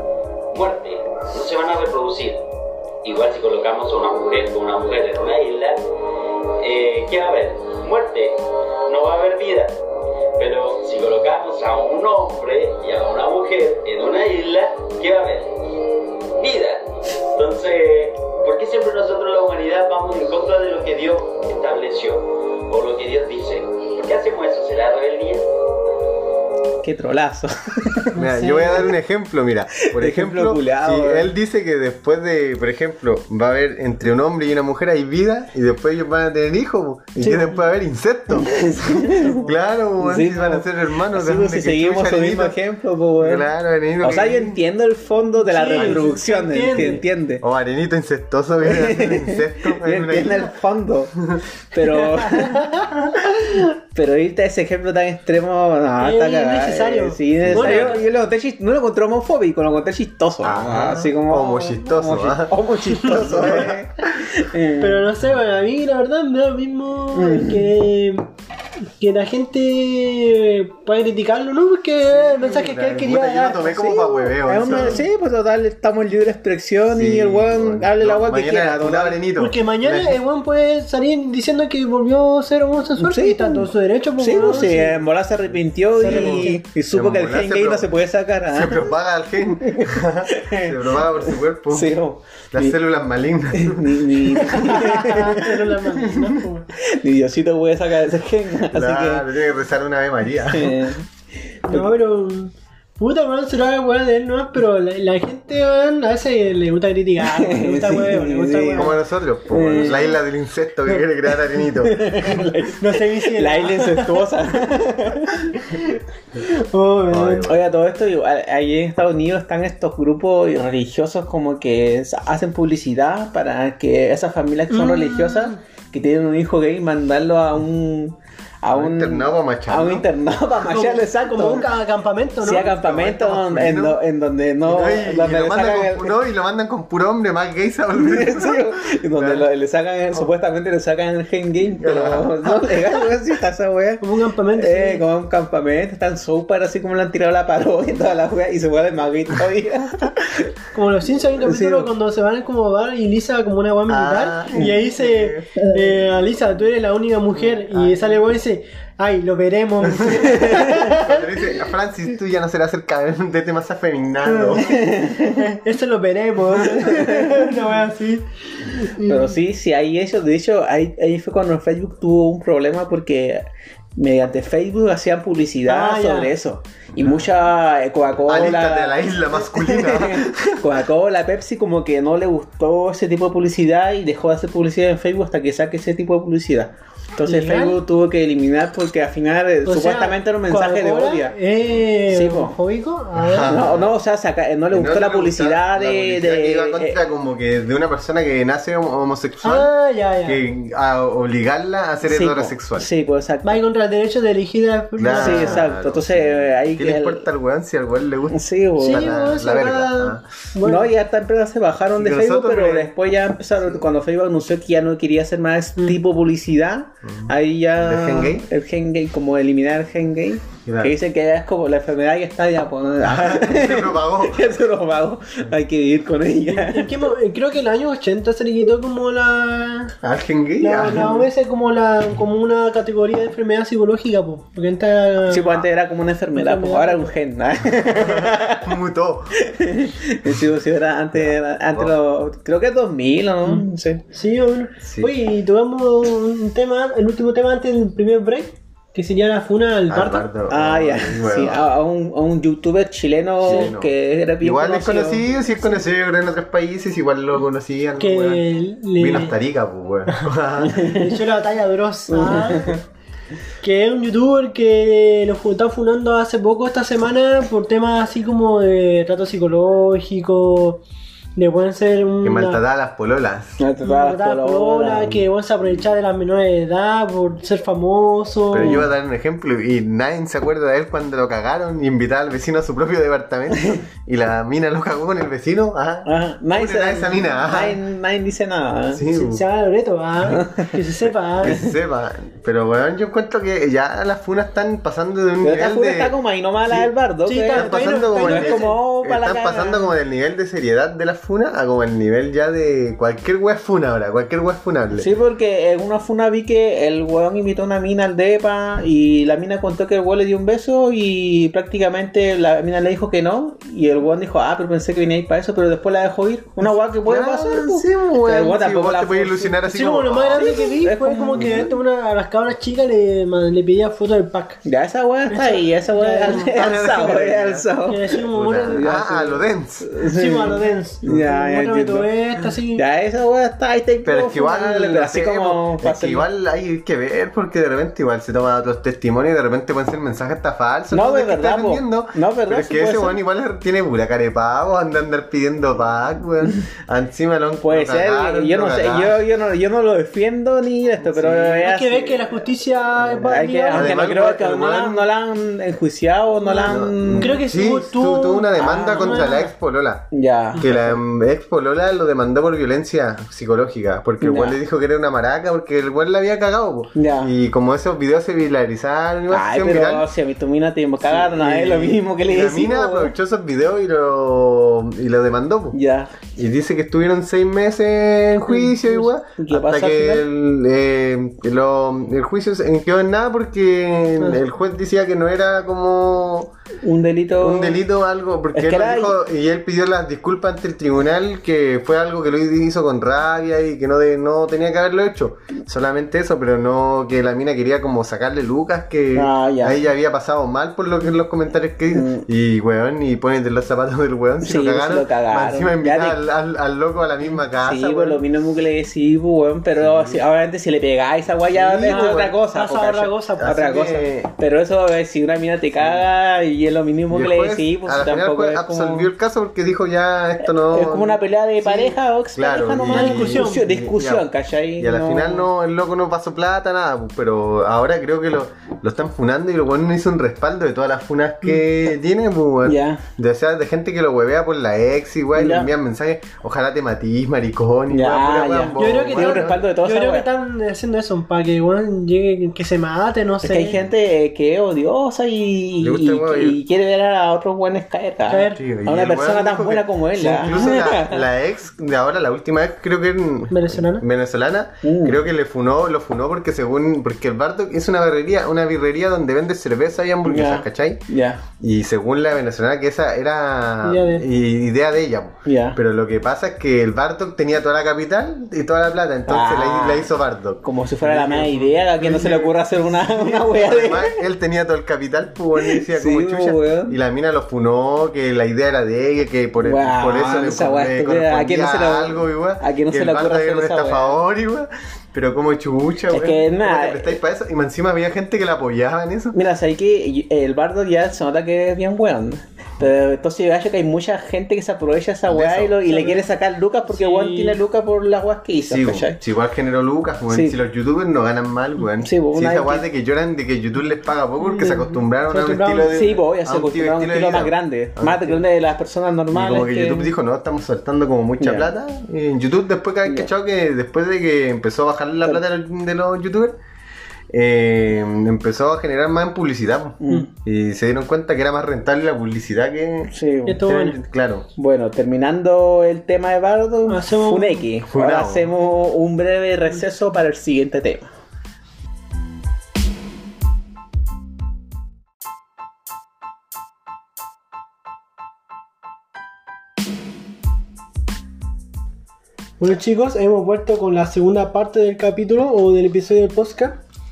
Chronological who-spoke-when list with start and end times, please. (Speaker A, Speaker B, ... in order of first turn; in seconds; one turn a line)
Speaker A: 0.5-2.5
Speaker A: 3.0-5.8
Speaker A: 6.6-9.8
Speaker A: 10.4-15.7
Speaker A: 16.4-25.5
Speaker B: 26.8-28.1
Speaker C: 28.1-28.9
Speaker D: 28.1-42.6
Speaker B: 29.9-31.3
Speaker C: 37.2-37.6
Speaker B: 38.3-39.4
Speaker C: 38.9-39.5
Speaker B: 40.0-43.5
Speaker D: 43.2-44.6
Speaker B: 44.0-47.4
Speaker C: 45.4-47.0
Speaker D: 47.4-50.5
Speaker B: 48.6-52.7
Speaker D: 51.2-51.4
Speaker C: 52.1-53.6
Speaker B: 53.2-65.1
Speaker C: 56.0-58.0
Speaker D: 57.4-58.0
Speaker D: 60.4-63.8
Speaker C: 63.2-63.6
Speaker C: 64.8-68.3
Speaker B: 67.1-67.7
Speaker C: 69.0-74.1
Speaker D: 72.1-75.1
Speaker B: 73.8-79.2
Speaker C: 74.7-75.0
Speaker D: 76.9-80.2
Speaker C: 79.4-85.0
Speaker B: 83.0-88.9
Speaker C: 86.0-86.6
Speaker D: 86.0-87.9
Speaker D: 88.5-92.0
Speaker B: 89.6-92.8
Speaker D: 92.5-95.2
Speaker B: 93.5-95.7
Speaker C: 94.5-96.7
Speaker B: 96.8-99.3
Speaker D: 98.7-100.9
Speaker B: 100.5-101.1
Speaker C: 101.7-109.0
Speaker B: 107.2-110.2
Speaker D: 108.8-112.3
Speaker B: 111.7-115.6
Speaker C: 112.3-114.3
Speaker C: 115.5-117.5
Speaker D: 117.1-117.6
Speaker B: 117.5-131.7
Speaker C: 124.7-125.6
Speaker D: 128.7-130.1
Speaker C: 130.7-132.8
Speaker B: 132.4-136.2
Speaker D: 132.7-134.0
Speaker D: 134.7-139.5
Speaker B: 138.0-150.5
Speaker D: 141.8-143.0
Speaker C: 144.0-145.0
Speaker C: 150.7-161.2
Speaker B: 151.4-151.9
Speaker D: 153.9-155.5
Speaker D: 157.6-158.2
Speaker D: 159.9-164.8
Speaker B: 160.4-160.8
Speaker C: 164.3-164.6
Speaker B: 164.6-165.5
Speaker C: 165.3-169.3
Speaker B: 166.6-167.5
Speaker B: 169.1-173.4
Speaker B: 174.0-191.3
Speaker C: 175.7-176.3
Speaker D: 178.3-180.6
Speaker C: 187.2-187.8
Speaker C: 189.7-193.6
Speaker B: 192.1-192.6
Speaker D: 193.2-193.9
Speaker B: 193.4-197.0
Speaker D: 194.7-199.7
Speaker C: 199.4-200.4
Speaker D: 200.2-202.9
Speaker B: 202.1-203.6
Speaker C: 203.4-205.7
Speaker D: 205.0-210.2
Speaker B: 205.1-207.2
Speaker B: 208.3-209.1
Speaker C: 208.8-210.9
Speaker B: 210.6-227.1
Speaker D: 211.9-212.9
Speaker D: 217.1-218.5
Speaker D: 220.7-220.9
Speaker D: 223.0-224.5
Speaker C: 226.5-229.9
Speaker D: 230.0-231.2
Speaker C: 230.6-235.6
Speaker B: 235.3-238.8
Speaker C: 236.4-237.1
Speaker D: 237.9-239.4
Speaker B: 239.4-244.0
Speaker D: 241.2-241.9
Speaker C: 243.4-250.3
Speaker D: 244.8-245.1
Speaker D: 249.9-251.7
Speaker B: 250.5-255.2
Speaker D: 253.4-258.4
Speaker C: 253.4-253.7
Speaker C: 258.0-259.4
Speaker D: 259.0-260.8
Speaker C: 260.1-262.8
Speaker B: 260.6-261.2
Speaker B: 262.1-262.8
Speaker C: 263.6-270.8
Speaker C: 271.4-272.6
Speaker D: 272.2-273.6
Speaker B: 273.6-275.2
Speaker C: 273.8-278.9
Speaker D: 278.5-287.8
Speaker B: 278.6-278.8
Speaker B: 283.6-283.8
Speaker B: 286.1-289.0
Speaker D: 288.9-289.4
Speaker C: 289.1-291.6
Speaker B: 290.3-290.7
Speaker D: 291.4-296.2
Speaker B: 291.4-291.7
Speaker B: 295.4-299.9
Speaker C: 297.3-298.8
Speaker D: 297.5-305.1
Speaker B: 304.9-319.6
Speaker D: 317.1-320.7
Speaker C: 319.7-324.6
Speaker B: 320.3-321.7
Speaker D: 321.4-321.6
Speaker B: 324.6-336.3
Speaker C: 325.3-326.5
Speaker D: 326.3-327.7
Speaker C: 327.9-328.9
Speaker D: 328.3-329.9
Speaker C: 330.1-332.8
Speaker D: 334.0-349.2
Speaker B: 340.9-343.2
Speaker B: 347.6-352.2
Speaker D: 351.0-351.6
Speaker C: 351.6-354.0
Speaker B: 353.2-357.4
Speaker D: 353.7-355.1
Speaker C: 356.5-359.5
Speaker D: 356.6-370.1
Speaker B: 358.6-359.4
Speaker B: 360.1-361.0
Speaker B: 364.2-364.6
Speaker B: 367.0-367.3
Speaker B: 369.3-373.1
Speaker D: 371.0-375.8
Speaker B: 375.7-376.1
Speaker D: 376.4-386.5
Speaker B: 378.6-380.3
Speaker B: 386.8-387.8
Speaker D: 387.4-408.2
Speaker B: 388.5-389.2
Speaker B: 399.1-399.8
Speaker B: 401.9-402.3
Speaker B: 404.4-406.2
Speaker B: 407.6-419.1
Speaker D: 409.8-410.2
Speaker D: 411.5-412.4
Speaker C: 411.8-414.0
Speaker D: 413.4-414.3
Speaker D: 415.8-416.1
Speaker D: 417.1-424.3
Speaker B: 420.5-425.5
Speaker C: 422.8-423.6
Speaker D: 424.8-439.6
Speaker B: 432.6-433.1
Speaker B: 435.4-435.7
Speaker B: 437.9-440.3
Speaker C: 438.8-443.8
Speaker B: 443.4-451.3
Speaker D: 445.8-446.6
Speaker C: 448.3-448.6
Speaker D: 448.6-461.0
Speaker C: 453.5-454.1
Speaker B: 454.8-455.2
Speaker B: 460.2-461.4
Speaker D: 461.6-489.4
Speaker C: 463.8-464.2
Speaker B: 465.5-465.8
Speaker B: 469.3-470.1
Speaker B: 470.6-474.2
Speaker C: 472.0-472.5
Speaker B: 475.6-477.0
Speaker B: 479.6-484.2
Speaker B: 486.1-487.2
Speaker B: 489.3-499.2
Speaker D: 495.3-495.8
Speaker C: 495.9-496.2
Speaker C: 496.9-497.6
Speaker D: 498.7-508.4
Speaker B: 500.3-500.6
Speaker B: 502.0-502.9
Speaker C: 504.4-506.0
Speaker B: 505.9-510.1
Speaker D: 509.3-516.6
Speaker B: 511.4-511.7
Speaker D: 517.3-524.5
Speaker B: 520.0-520.3
Speaker B: 523.1-523.7
Speaker C: 523.5-524.0
Speaker B: 524.6-531.1
Speaker C: 526.9-527.7
Speaker D: 527.9-528.5
Speaker C: 542.6-546.8